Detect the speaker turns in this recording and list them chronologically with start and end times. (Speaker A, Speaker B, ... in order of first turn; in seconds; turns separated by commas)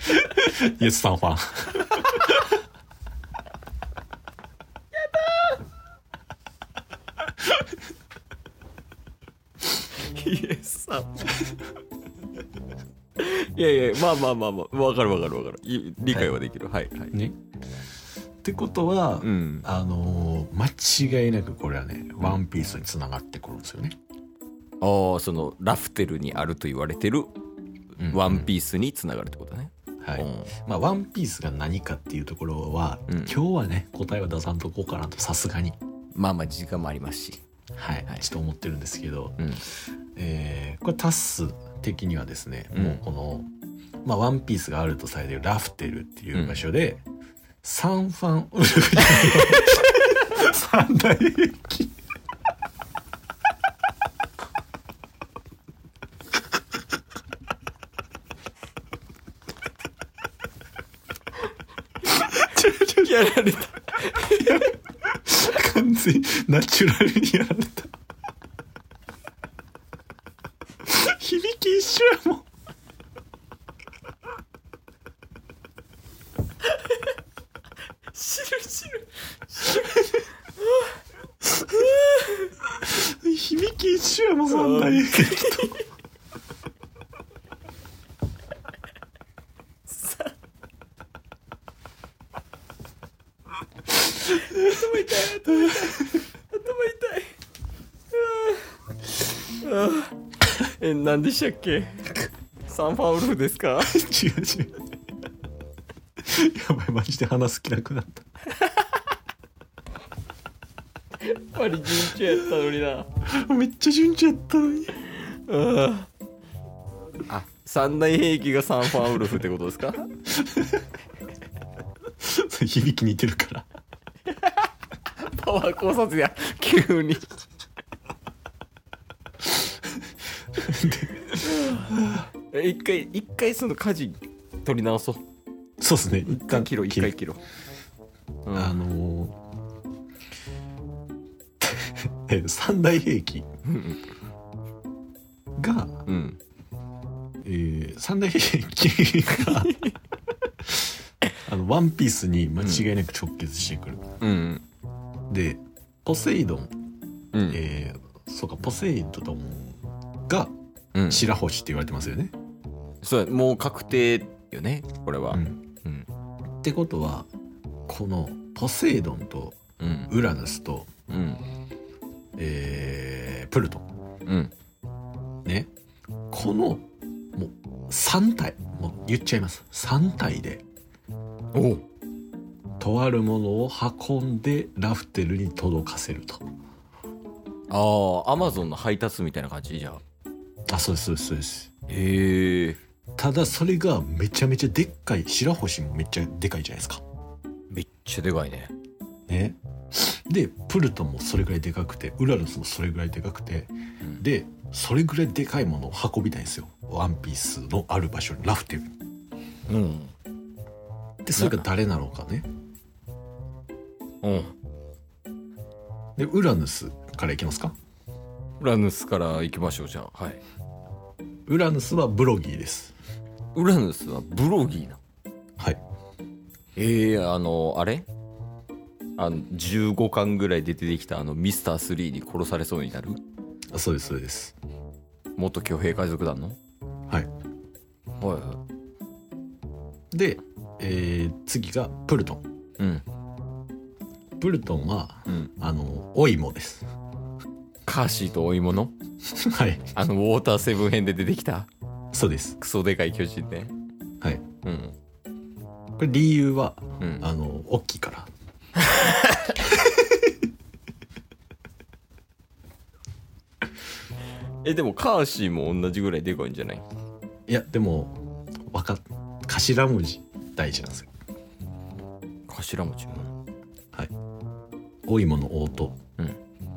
Speaker A: 0.2-2.4, Speaker B: 5.1-5.5, Speaker B: 9.7-11.5, Speaker B: 13.2-17.1, Speaker A: 18.4-23.9, Speaker B: 19.2-19.7, Speaker B: 24.8-27.3, Speaker B: 28.0-30.5, Speaker A: 28.0-28.5, Speaker A: 30.0-35.8, Speaker B: 33.1-33.4, Speaker B: 36.1-37.4, Speaker A: 37.7-39.6, Speaker A: 40.1-43.5, Speaker B: 42.7-43.0, Speaker A: 44.0-47.0, Speaker B: 46.3-46.6, Speaker A: 47.6-51.9, Speaker A: 62.1-63.3, Speaker B: 62.3-64.7, Speaker A: 64.1-67.9, Speaker A: 70.8-72.4, Speaker B: 78.1-80.9, Speaker B: 81.6-82.5, Speaker A: 82.7-85.8, Speaker B: 84.5-85.8, Speaker B: 89.9-90.3, Speaker B: 94.2-97.3, Speaker B: 98.1-98.7, Speaker B: 99.5-104.0, Speaker A: 103.8-104.8, Speaker A: 106.2-108.2, Speaker B: 111.2-113.1, Speaker A: 113.2-115.0, Speaker B: 115.3-116.1, Speaker B: 117.2-120.1, Speaker A: 120.4-120.8, Speaker A: 122.2-123.7, Speaker B: 124.3-127.3, Speaker A: 130.5-132.3, Speaker B: 131.4-131.9, Speaker B: 132.5-135.2, Speaker A: 135.8-137.1, Speaker B: 136.2-137.4, Speaker B: 138.4-138.8, Speaker A: 138.5-139.4, Speaker A: 141.6-143.5, Speaker B: 143.6-144.1, Speaker A: 145.6-146.0, Speaker B: 146.1-146.4, Speaker A: 147.4-149.9, Speaker A: 150.7-154.0, Speaker B: 152.6-152.9, Speaker B: 154.2-154.6, Speaker A: 155.3-156.7, Speaker B: 157.3-157.6, Speaker A: 157.5-160.5, Speaker B: 160.9-161.3, Speaker A: 161.1-162.3, Speaker B: 163.0-166.1, Speaker A: 165.3-165.6, Speaker A: 166.6-167.3, Speaker A: 167.9-169.6, Speaker B: 169.8-170.1, Speaker A: 170.1-170.9, Speaker B: 171.1-171.4, Speaker A: 172.4-173.8, Speaker B: 174.2-174.5, Speaker A: 175.4-175.7, Speaker A: 176.3-180.6, Speaker B: 181.5-181.8, Speaker A: 182.8-186.4, Speaker B: 187.7-190.0, Speaker A: 190.7-191.7, Speaker B: 191.9-192.8, Speaker A: 193.2-197.0, Speaker B: 197.7-198.7, Speaker A: 199.3-208.9, Speaker B: 209.7-210.1, Speaker A: 211.2-212.5, Speaker B: 211.3-211.6, Speaker B: 214.2-214.5, Speaker A: 216.2-217.7, Speaker B: 218.6-220.4, Speaker A: 221.5-222.9, Speaker B: 223.5-225.0, Speaker B: 226.8-228.1, Speaker B: 229.2-233.2, Speaker A: 233.7-234.5, Speaker B: 235.3-236.6, Speaker B: 238.2-238.6, Speaker A: 240.1-242.4, Speaker B: 242.8-243.0, Speaker A: 244.4-246.9, Speaker B: 247.8-248.9, Speaker A: 249.3-249.9, Speaker B: 249.9-251.7, Speaker A: 252.1-252.6, Speaker B: 252.6-253.7, Speaker B: 254.6-254.9, Speaker A: 256.0-258.3, Speaker B: 257.0-257.2, Speaker B: 258.9-259.5, Speaker B: 264.6-266.8, Speaker A: 267.5-271.1, Speaker B: 272.5-273.3, Speaker A: 275.1-276.0